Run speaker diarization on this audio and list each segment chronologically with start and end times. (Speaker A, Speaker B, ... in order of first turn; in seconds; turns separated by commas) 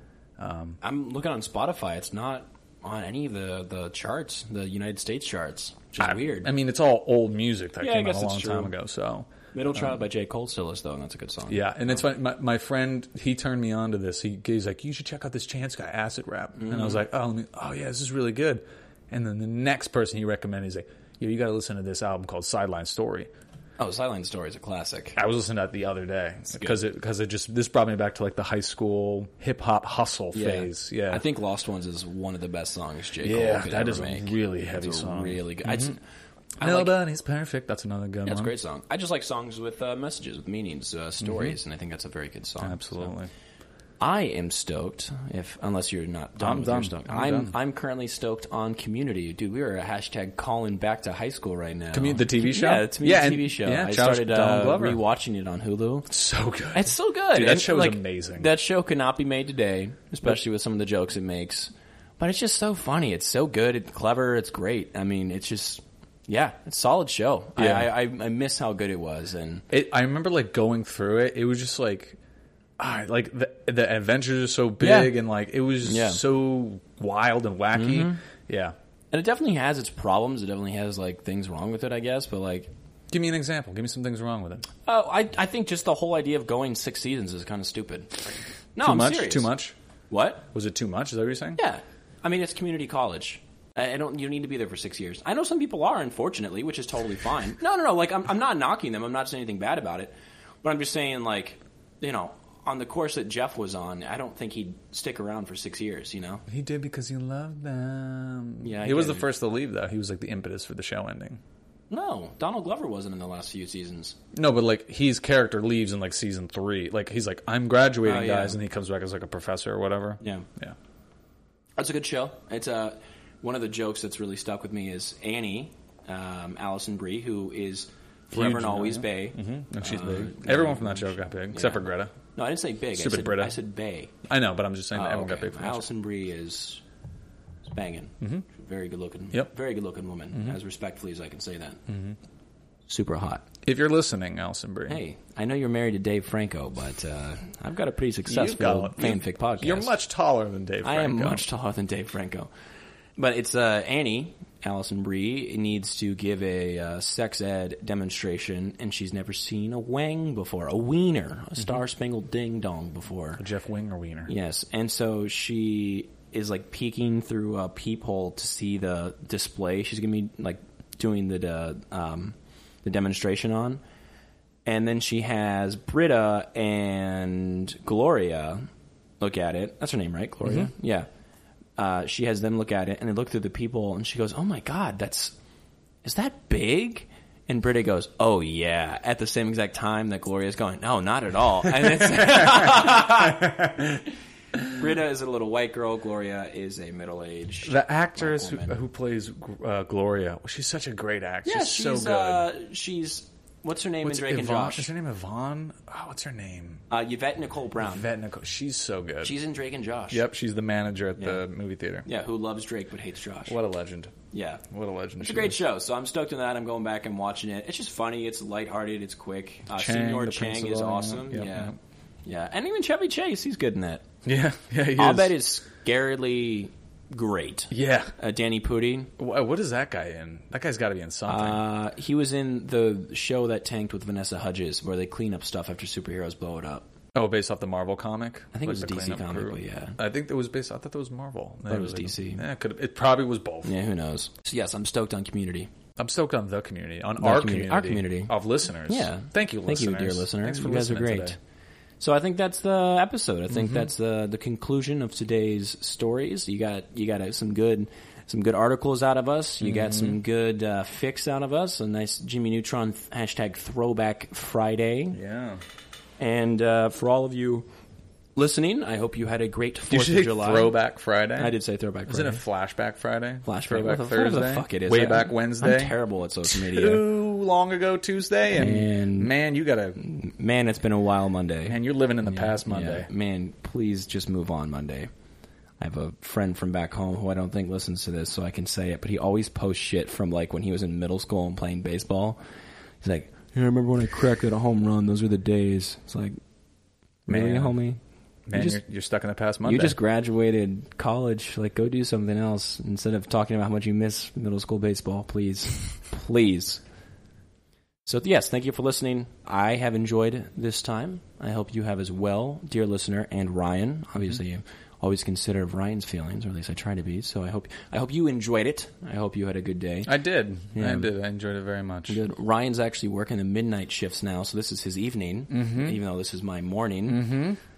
Speaker A: 0.4-0.8, Speaker B: 0.8-6.5, Speaker A: 6.0-9.8, Speaker B: 7.8-8.7, Speaker B: 9.5-12.0, Speaker A: 11.5-23.3, Speaker B: 16.6-17.0, Speaker B: 23.8-25.2, Speaker A: 25.1-31.2, Speaker B: 30.3-36.0, Speaker A: 33.2-36.0, Speaker B: 36.6-36.9, Speaker A: 36.6-38.5, Speaker B: 38.2-43.1, Speaker A: 41.2-41.5, Speaker A: 42.6-43.3, Speaker B: 44.0-56.1, Speaker A: 46.4-47.5, Speaker A: 51.9-55.0, Speaker A: 56.1-58.5, Speaker B: 56.7-69.7, Speaker A: 67.6-67.9, Speaker A: 69.7-72.2, Speaker A: 72.8-78.7, Speaker B: 74.8-75.1, Speaker B: 75.8-76.2, Speaker B: 77.7-78.2, Speaker B: 79.1-82.7, Speaker A: 83.1-84.7, Speaker B: 84.8-89.5, Speaker A: 88.8-89.7, Speaker B: 90.1-90.5, Speaker A: 90.5-91.6, Speaker B: 91.5-106.4, Speaker A: 106.5-111.4, Speaker B: 108.6-109.3, Speaker B: 111.9-114.2, Speaker A: 114.3-120.8, Speaker B: 118.0-118.6, Speaker B: 120.2-120.5, Speaker B: 121.8-134.1, Speaker A: 128.3-132.1, Speaker A: 132.9-133.6, Speaker A: 134.3-135.9, Speaker B: 134.9-136.8, Speaker B: 137.7-141.8, Speaker A: 141.9-142.2, Speaker B: 142.9-143.4, Speaker A: 143.6-145.0, Speaker B: 144.9-149.9, Speaker A: 148.3-151.4, Speaker B: 150.8-152.5, Speaker B: 153.2-163.4, Speaker A: 163.4-164.3, Speaker B: 164.3-173.8, Speaker B: 174.7-178.7, Speaker B: 179.2-181.1, Speaker B: 181.8-185.3, Speaker B: 186.0-193.7, Speaker A: 191.7-194.0, Speaker B: 194.7-198.8, Speaker A: 197.6-202.5, Speaker B: 201.4-204.9, Speaker A: 204.0-206.8, Speaker B: 206.9-208.1, Speaker A: 207.8-209.3, Speaker B: 209.2-210.2, Speaker A: 210.1-212.1, Speaker B: 212.1-213.6, Speaker A: 213.5-214.2, Speaker B: 214.3-214.6, Speaker A: 214.7-215.6, Speaker B: 215.2-221.7, Speaker A: 219.7-221.7, Speaker B: 222.2-224.0, Speaker A: 224.2-225.3, Speaker B: 225.0-229.1, Speaker A: 227.7-228.1, Speaker A: 229.2-231.6, Speaker B: 231.2-236.9, Speaker A: 237.1-243.7, Speaker B: 238.5-240.0, Speaker B: 241.7-242.4, Speaker B: 243.6-245.7, Speaker A: 246.0-251.3, Speaker B: 247.2-251.4, Speaker B: 252.0-265.2, Speaker A: 253.5-253.9, Speaker A: 259.6-260.2, Speaker A: 265.1-265.6, Speaker B: 266.2-267.7, Speaker B: 268.4-270.8, Speaker A: 269.9-271.5, Speaker B: 271.4-272.4, Speaker A: 272.1-280.0, Speaker B: 273.4-277.0, Speaker B: 278.5-279.3, Speaker B: 280.0-285.1, Speaker A: 281.7-283.1, Speaker B: 285.8-292.4, Speaker B: 293.0-296.4, Speaker B: 297.3-298.0, Speaker A: 297.3-297.8, Speaker A: 298.5-300.0, Speaker B: 298.5-298.8, Speaker B: 299.6-306.8, Speaker B: 308.1-320.1, Speaker A: 320.1-322.2, Speaker B: 320.7-321.1, Speaker B: 322.1-327.3, Speaker A: 325.5-326.0, Speaker A: 327.1-327.6